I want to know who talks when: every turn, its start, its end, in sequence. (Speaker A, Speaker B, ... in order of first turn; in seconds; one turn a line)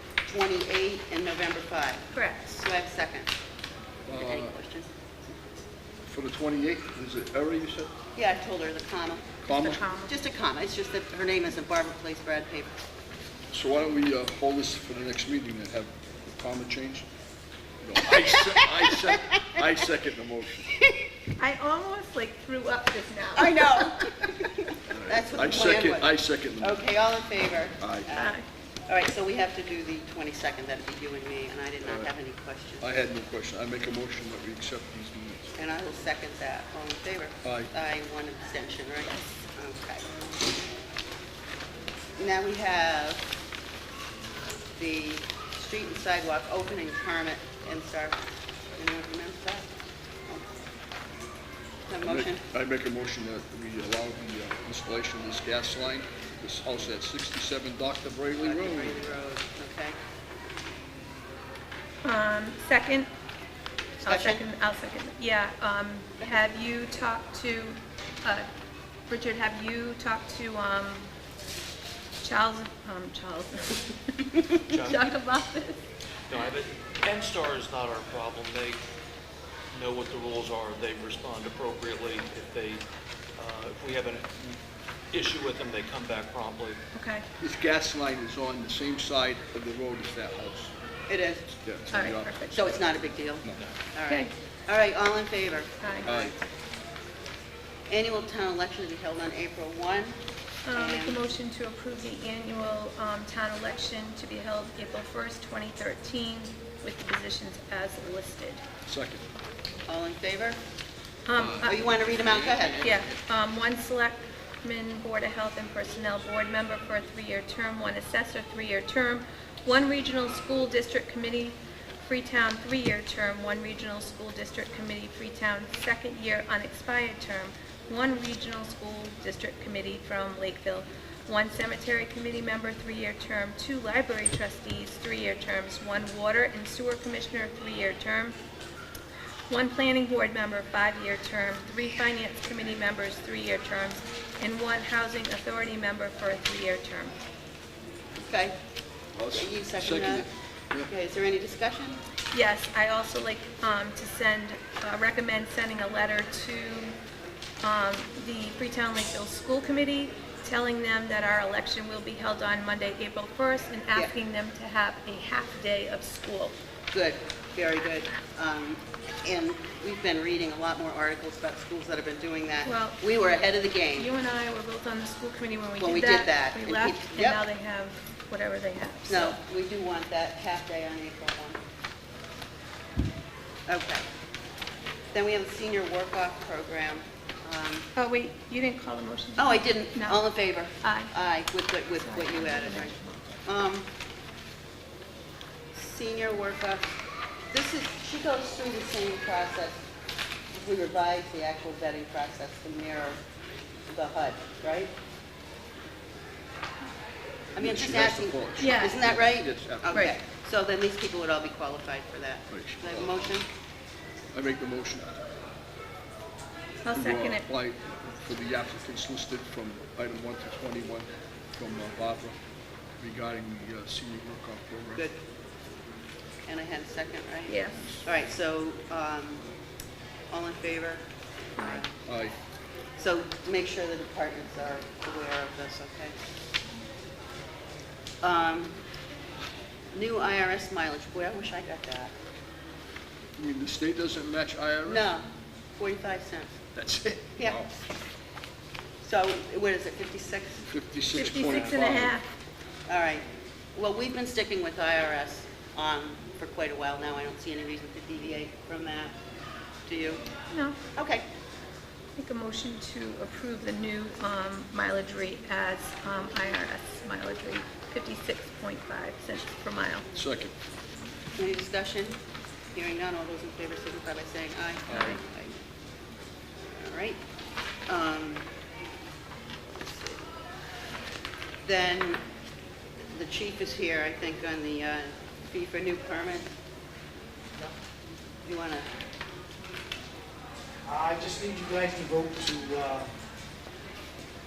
Speaker A: 0.3-3.3
Speaker B: 2.1-2.4
Speaker C: 4.1-4.5
Speaker A: 4.1-4.9
Speaker C: 6.0-7.9
Speaker A: 8.2-9.4
Speaker C: 9.4-9.8
Speaker B: 9.5-10.1
Speaker A: 10.1-12.8
Speaker C: 13.5-17.1
Speaker C: 17.8-20.7
Speaker A: 18.0-19.6
Speaker A: 20.8-21.1
Speaker B: 21.4-23.9
Speaker A: 23.4-32.9
Speaker C: 24.9-26.8
Speaker C: 27.8-28.1
Speaker B: 28.1-28.4
Speaker C: 31.8-32.1
Speaker C: 32.8-35.5
Speaker A: 35.6-40.0
Speaker C: 37.4-37.7
Speaker A: 42.2-43.3
Speaker A: 44.8-48.2
Speaker A: 48.8-49.7
Speaker A: 51.9-52.4
Speaker C: 52.0-59.0
Speaker A: 58.4-60.0
Speaker B: 62.0-63.1
Speaker A: 64.0-64.4
Speaker B: 64.0-68.5
Speaker B: 69.1-71.1
Speaker B: 72.2-75.8
Speaker D: 74.6-75.1
Speaker D: 76.3-78.8
Speaker D: 79.7-82.8
Speaker D: 83.4-84.6
Speaker D: 85.1-86.8
Speaker B: 86.9-87.2
Speaker C: 87.4-90.7
Speaker A: 91.1-91.5
Speaker C: 91.5-92.8
Speaker B: 91.9-92.5
Speaker A: 92.5-96.4
Speaker B: 95.8-96.1
Speaker C: 96.1-96.3
Speaker A: 97.9-100.2
Speaker B: 100.7-108.6
Speaker A: 100.7-101.3
Speaker C: 108.9-109.2
Speaker A: 109.9-110.6
Speaker B: 111.3-111.8
Speaker C: 111.3-113.2
Speaker A: 111.6-112.9
Speaker B: 112.8-138.3
Speaker B: 139.5-147.2
Speaker A: 148.2-148.6
Speaker C: 149.1-150.9
Speaker A: 149.3-150.2
Speaker A: 150.9-152.0
Speaker B: 152.3-156.9
Speaker B: 157.6-166.5
Speaker A: 166.9-174.1
Speaker B: 172.6-173.0
Speaker B: 174.0-179.4
Speaker A: 175.8-177.4
Speaker A: 179.1-181.6
Speaker A: 183.7-184.1
Speaker A: 185.1-187.9
Speaker B: 187.9-190.2
Speaker A: 189.4-192.9
Speaker B: 190.8-191.1
Speaker B: 192.0-193.4
Speaker A: 193.4-193.9
Speaker A: 195.7-196.9
Speaker A: 197.5-199.8
Speaker A: 200.5-203.2
Speaker A: 203.9-204.9
Speaker C: 207.6-210.2
Speaker A: 207.6-213.5
Speaker B: 208.6-209.0
Speaker C: 212.5-213.2
Speaker C: 214.3-215.3
Speaker B: 216.8-217.4
Speaker C: 216.9-222.4
Speaker C: 223.0-225.0
Speaker A: 226.4-229.5
Speaker B: 227.5-227.8
Speaker C: 227.8-228.0
Speaker A: 230.3-231.0
Speaker B: 231.6-231.8
Speaker A: 231.6-231.9
Speaker C: 232.0-232.3
Speaker A: 233.0-236.1
Speaker A: 238.2-238.8
Speaker A: 239.9-242.1
Speaker C: 243.4-245.1
Speaker A: 244.8-246.6
Speaker C: 246.8-247.7
Speaker A: 249.0-250.7
Speaker C: 250.7-252.1
Speaker B: 251.1-252.2
Speaker A: 251.3-251.8
Speaker A: 252.9-253.2
Speaker A: 253.8-259.2
Speaker A: 259.9-260.2
Speaker B: 260.5-260.8
Speaker A: 260.9-261.2
Speaker B: 262.2-270.1
Speaker C: 270.1-270.5
Speaker A: 271.4-272.2
Speaker A: 272.8-275.5
Speaker C: 274.9-275.2
Speaker B: 274.9-275.2
Speaker A: 276.8-277.2
Speaker A: 277.9-278.5
Speaker A: 279.8-280.2
Speaker A: 281.6-282.2
Speaker A: 283.1-286.5
Speaker A: 288.4-288.9
Speaker E: 290.9-293.1